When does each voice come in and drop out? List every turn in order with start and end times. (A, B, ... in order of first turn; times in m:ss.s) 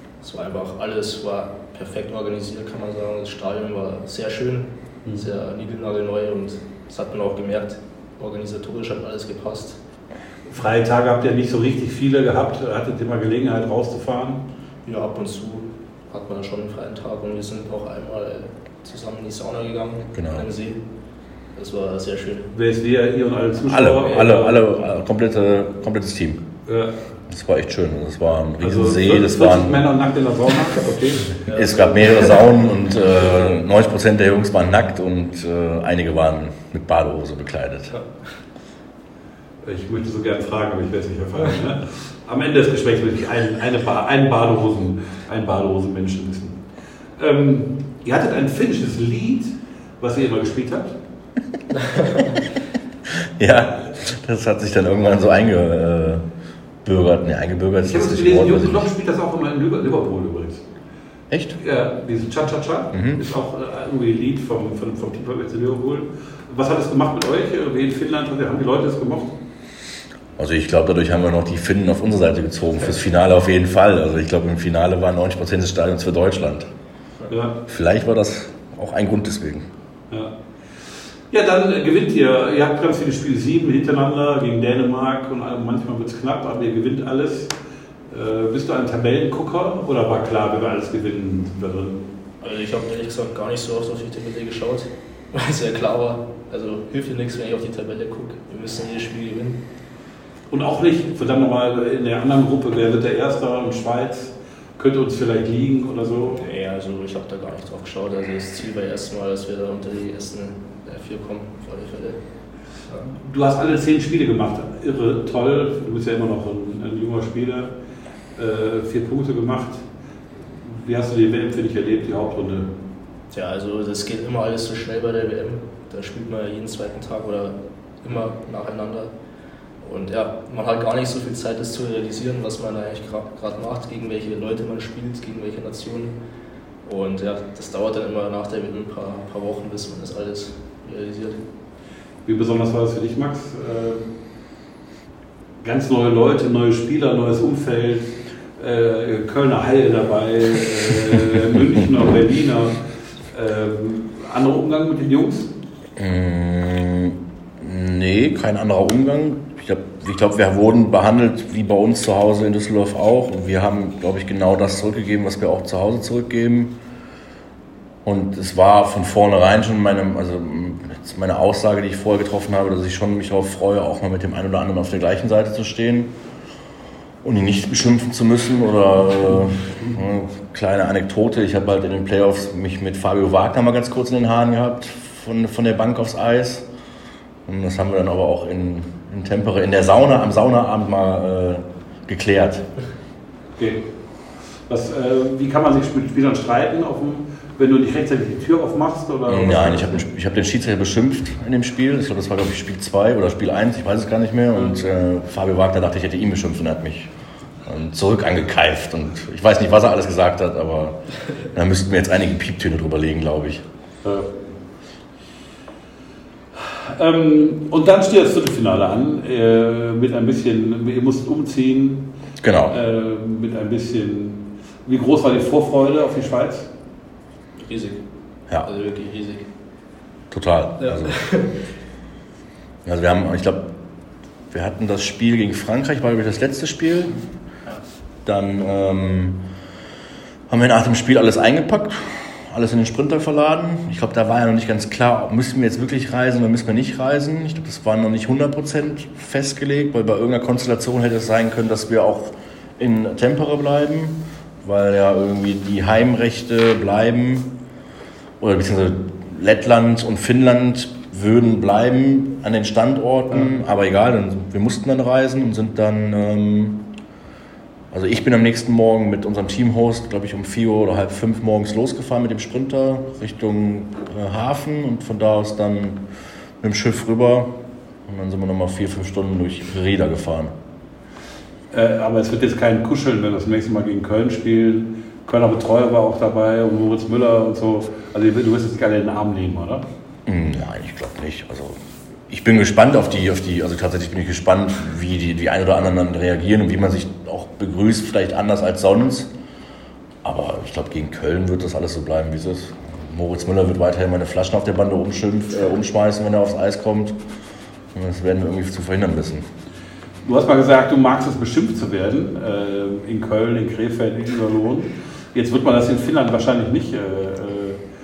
0:00.2-0:09.8 A
0:10.5-0:14.4 B
0:14.8-0:20.8 A
0:20.1-0:20.5 C
0:21.5-0:22.5 A
0:22.5-0:24.6 B
0:23.7-0:26.4 C
0:26.7-0:27.0 B
0:27.3-0:29.9 C
0:28.6-0:32.4 B
0:31.5-0:37.9 C
0:39.6-0:46.6 B
0:47.2-0:50.9 B
0:53.1-0:56.2 C
0:56.8-0:58.9 C
0:57.8-1:00.6 B
1:01.3-1:01.6 C
1:01.6-1:09.3 B
1:02.9-1:03.2 C
1:10.4-1:16.7 C
1:17.3-1:17.6 B
1:17.7-1:19.7 C
1:21.3-1:27.5 B
1:28.1-1:32.0 B
1:32.4-1:39.6 A
1:40.5-1:46.4 B
1:46.3-1:52.2 A
1:53.0-1:57.7 B
1:58.4-1:59.8 B
2:00.4-2:02.7 B
2:03.3-2:09.1 A
2:09.8-2:16.2 A
2:16.8-2:21.4 A
2:22.2-2:24.1 B
2:25.6-2:32.8 B
2:33.3-2:35.5 B
2:36.0-2:46.8 C
2:48.0-2:56.1 C
2:57.2-3:06.7 C
3:07.4-3:12.7 C
3:13.6-3:13.9 B
3:14.7-3:20.0 B
3:19.3-3:27.1 C
3:27.6-3:33.6 C
3:34.0-3:34.3 B
3:36.6-3:42.1 B
3:42.4-3:42.8 C
3:42.7-3:46.7 B
3:47.6-3:48.0 A
3:48.6-3:49.5 A
3:50.3-3:51.2 C
3:50.8-3:51.5 A
3:52.8-3:53.6 C
3:54.5-3:57.2 C
3:58.2-3:59.4 C
4:00.5-4:17.5 C
4:18.4-4:26.9 C
4:27.9-4:36.0 C
4:36.6-4:40.5 C
4:41.7-4:49.8 B
4:50.2-4:59.3 C
5:00.2-5:07.2 C
5:07.9-5:09.4 C
5:10.2-5:17.8 B